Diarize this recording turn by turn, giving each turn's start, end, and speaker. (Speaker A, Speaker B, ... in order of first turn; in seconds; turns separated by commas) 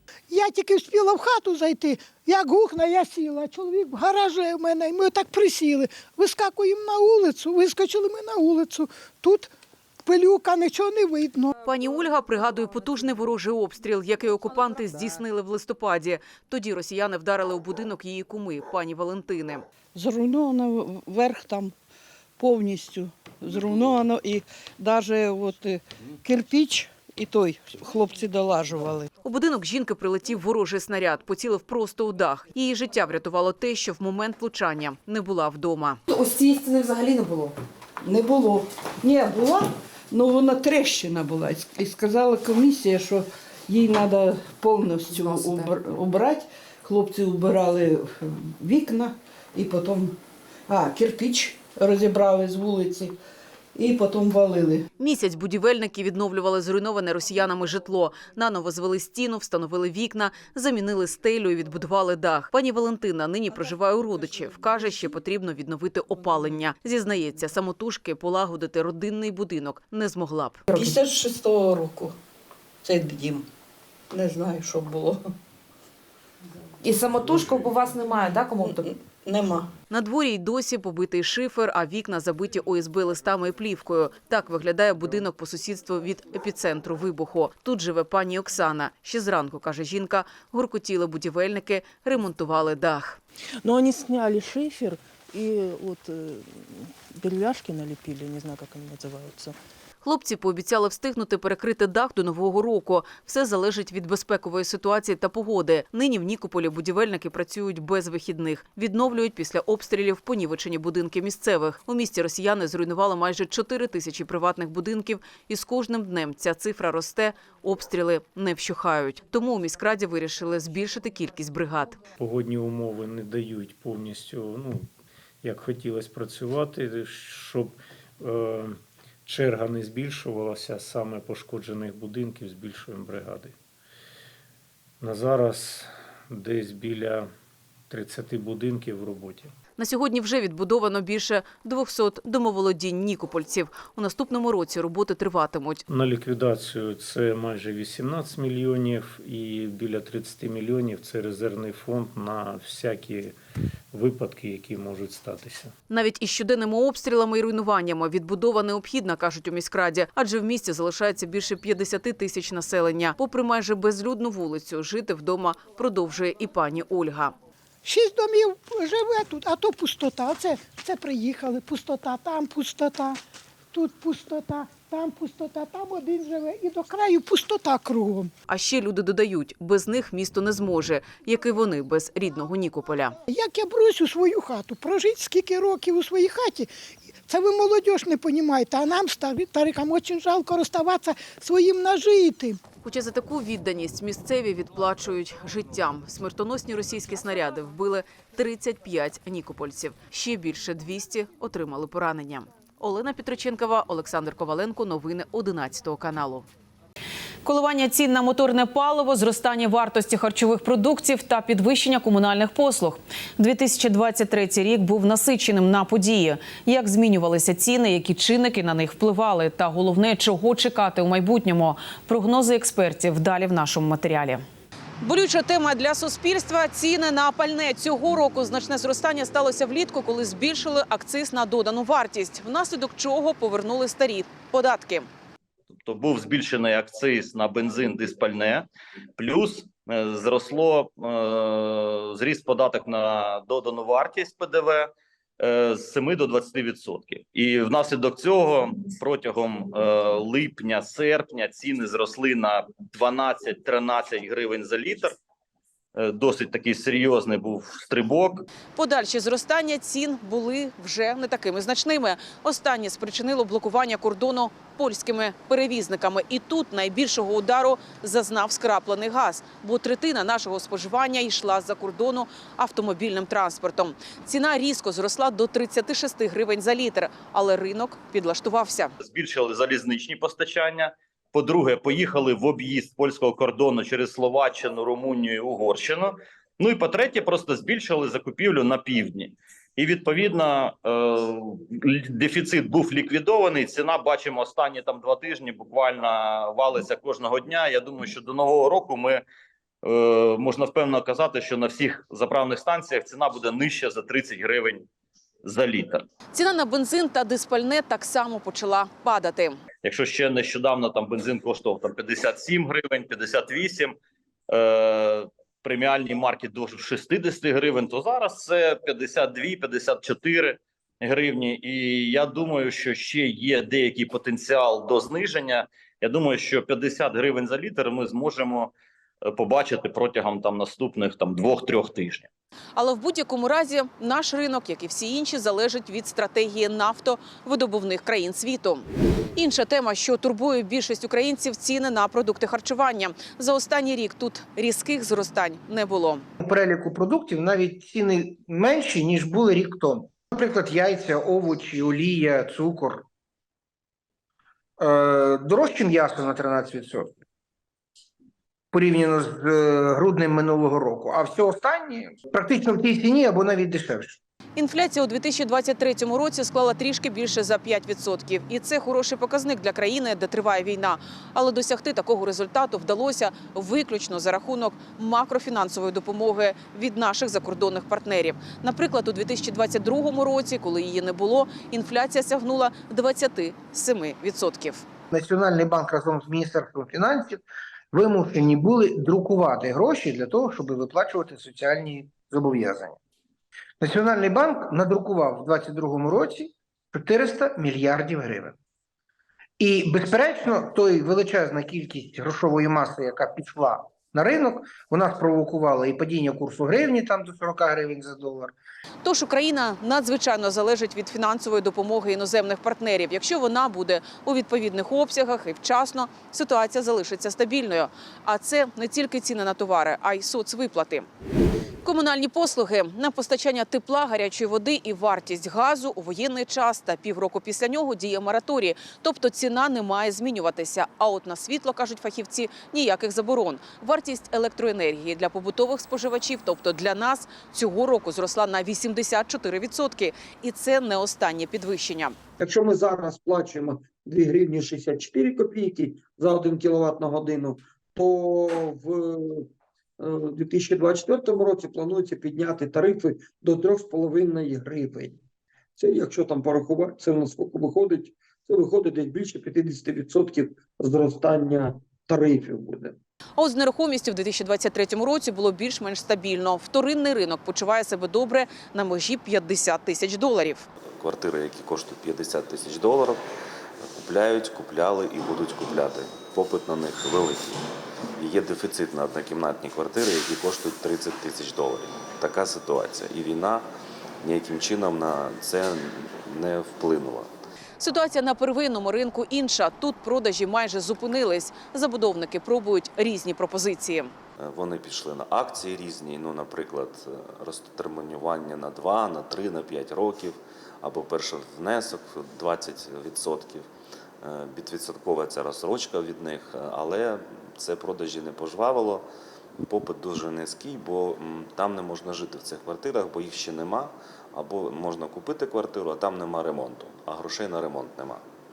Speaker A: 0.3-9.5, Speaker A: 10.1-11.5, Speaker B: 11.6-19.6, Speaker C: 19.9-21.7, Speaker C: 22.4-29.1, Speaker B: 29.2-36.0, Speaker D: 36.1-37.5, Speaker C: 38.0-50.1, Speaker C: 50.7-53.1, Speaker C: 53.7-54.9, Speaker B: 55.0-70.6, Speaker D: 70.7-70.9, Speaker C: 70.7-72.1, Speaker C: 72.8-73.5, Speaker C: 74.1-75.2, Speaker D: 76.8-78.9, Speaker C: 78.6-79.7, Speaker B: 79.9-93.2, Speaker E: 93.6-99.5, Speaker B: 100.0-122.0, Speaker F: 122.2-133.6, Speaker F: 135.0-137.3, Speaker F: 137.9-139.5, Speaker B: 139.8-145.8, Speaker F: 145.9-153.4, Speaker F: 153.9-155.7, Speaker B: 155.9-167.3, Speaker A: 167.8-173.2, Speaker A: 173.7-178.3, Speaker B: 178.5-183.2, Speaker A: 183.3-192.6, Speaker B: 192.8-206.5, Speaker B: 207.4-224.4, Speaker B: 225.0-235.1, Speaker G: 235.8-238.7, Speaker G: 239.2-255.1, Speaker G: 255.9-258.4, Speaker B: 258.8-278.9, Speaker G: 279.0-299.2, Speaker G: 299.8-304.9, Speaker G: 305.4-306.0, Speaker B: 306.3-309.6, Speaker G: 309.8-313.9, Speaker G: 314.5-328.7, Speaker G: 329.2-332.3, Speaker B: 332.8-346.2, Speaker H: 346.4-353.1, Speaker H: 354.8-357.2, Speaker H: 358.7-364.2, Speaker B: 364.6-384.9, Speaker H: 385.1-393.0, Speaker H: 393.8-398.6, Speaker H: 399.6-408.5, Speaker B: 409.0-421.1, Speaker B: 421.8-442.2, Speaker I: 442.4-455.2, Speaker I: 455.8-463.0, Speaker B: 463.4-470.7, Speaker J: 471.0-473.2, Speaker J: 473.8-477.6, Speaker J: 478.2-483.6, Speaker J: 484.2-487.3, Speaker B: 487.8-494.1, Speaker J: 494.4-503.7, Speaker J: 504.2-509.1, Speaker J: 509.6-518.2